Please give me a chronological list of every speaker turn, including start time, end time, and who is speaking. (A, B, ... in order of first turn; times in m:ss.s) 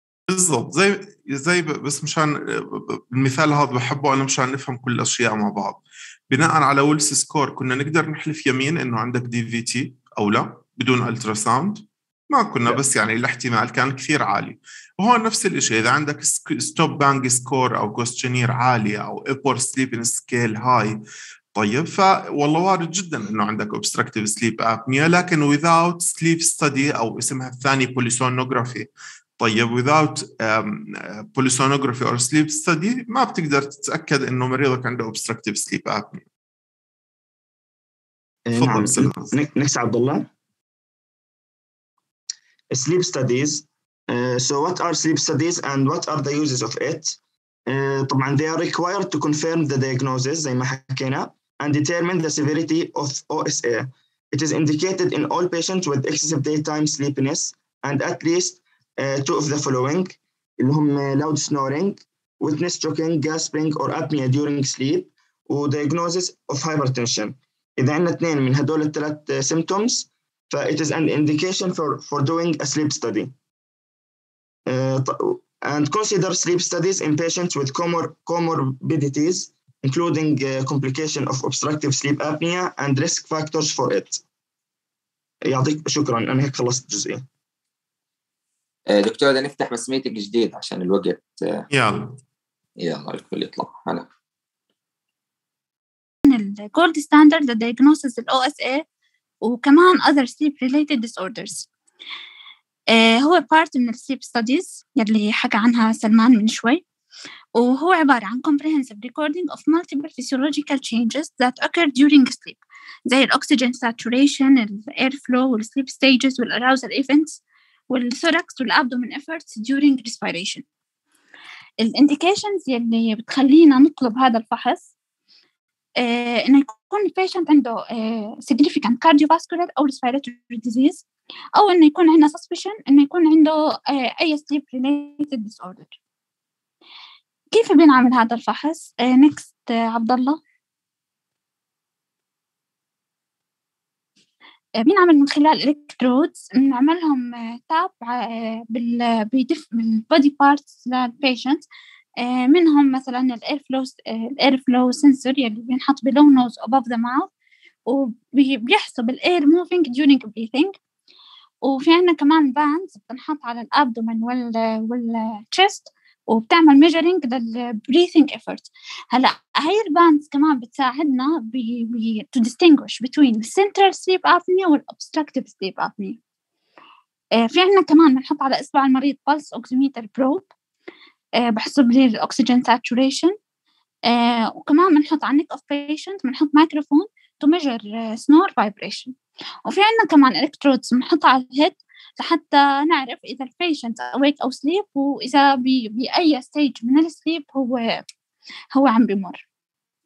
0:00.3-0:21.0 A
0:21.5-0:36.2 A
0:38.4-0:40.3 B
0:38.5-0:39.3 A
0:42.7-1:13.3 B
1:14.7-1:24.2 B
1:25.4-1:27.2 B
1:28.9-1:31.6 C
1:31.7-1:32.2 A
1:32.8-1:34.1 C
1:36.2-1:38.8 D
1:39.4-1:41.7 D
1:42.9-1:46.8 D
1:47.5-1:57.4 D
1:57.9-2:00.6 D
2:01.8-2:04.9 D
2:06.0-2:11.0 D
2:11.6-2:15.9 D
2:17.5-2:20.4 D
2:24.8-2:31.6 D
2:32.2-2:37.3 D
2:37.9-2:40.7 D
2:41.6-2:56.2 D
2:57.4-3:00.5 D
3:01.4-3:03.3 D
3:04.1-3:09.1 D
3:09.6-3:18.0 D
3:18.7-3:19.4 D